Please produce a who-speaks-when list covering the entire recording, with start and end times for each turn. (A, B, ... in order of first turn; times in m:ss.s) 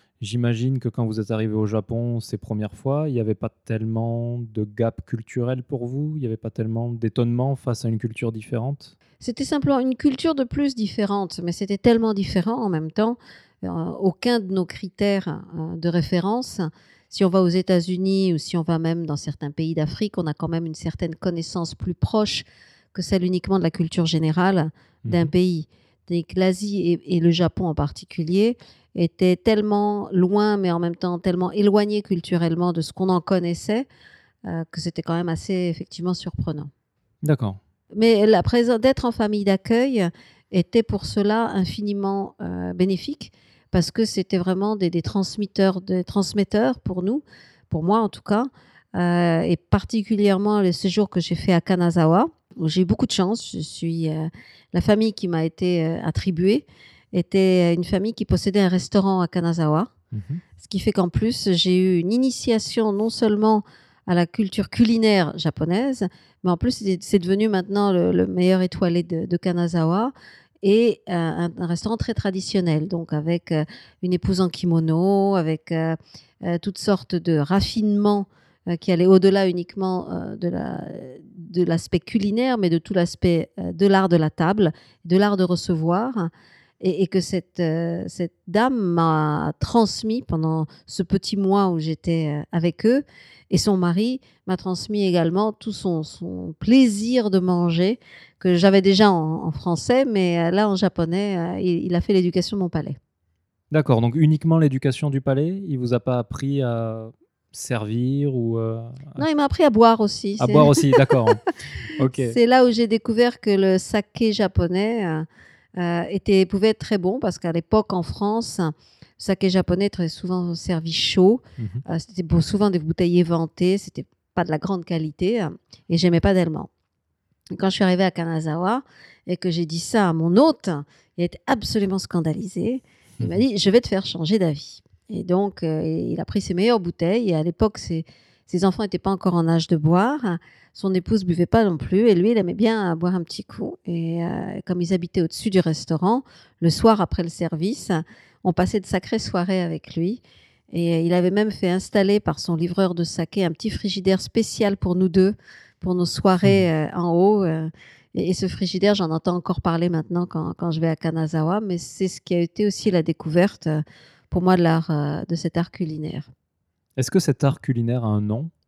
0:00.2-0:09.0 A
0:09.2-0:33.9 B
0:25.0-0:25.3 A
0:34.4-0:36.7 B
0:37.2-0:37.6 A
0:37.9-0:59.9 B
1:00.1-1:00.4 A
1:00.6-1:43.0 B
1:43.7-1:49.2 A
1:49.2-1:51.0 B
1:50.4-1:52.4 A
1:52.1-2:06.7 B
2:01.6-2:01.8 A
2:07.5-2:30.2 B
2:30.7-2:46.3 B
2:47.0-2:48.5 A